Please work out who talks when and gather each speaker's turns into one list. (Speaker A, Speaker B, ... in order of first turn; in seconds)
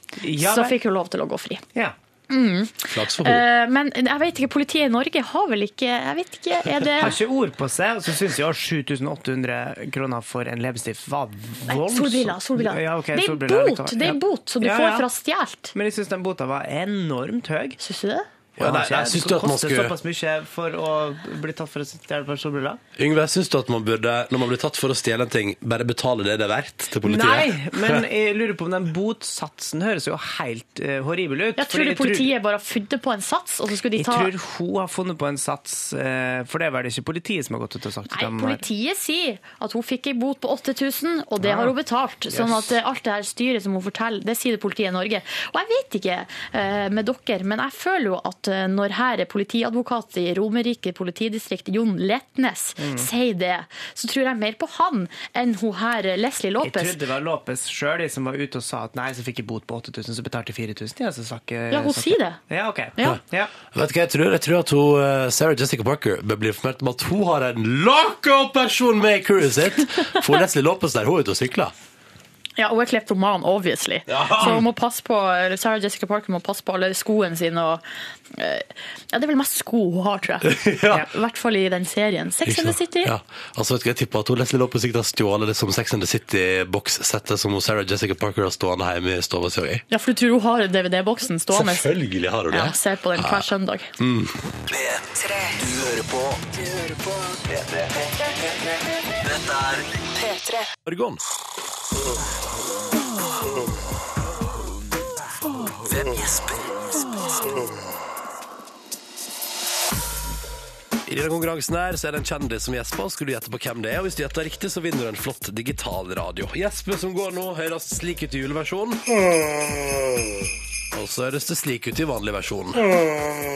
Speaker A: 0.2-0.8, 7.0-15.1, 15.7-17.8, 18.6-22.8, 27.0-32.3, 34.0-38.6, 41.4-41.7, 42.3-42.7, 52.8-53.1, 56.6-63.5
Speaker B: 0.4-1.6, 2.3-7.2, 11.7-15.7, 17.8-18.3, 31.6-34.3, 38.1-57.0, 61.7-62.4, 72.6-83.1, 89.9-91.9, 92.5-93.9
Speaker C: 2.9-3.5, 18.6-19.9, 23.0-28.0, 63.7-71.7, 74.1-74.7, 80.4-81.1, 82.5-89.8, 91.5-93.5, 94.0-94.4, 100.8-101.2, 111.0-119.0, 120.9-122.9
Speaker D: 94.7-98.4, 99.2-100.7, 105.9-107.6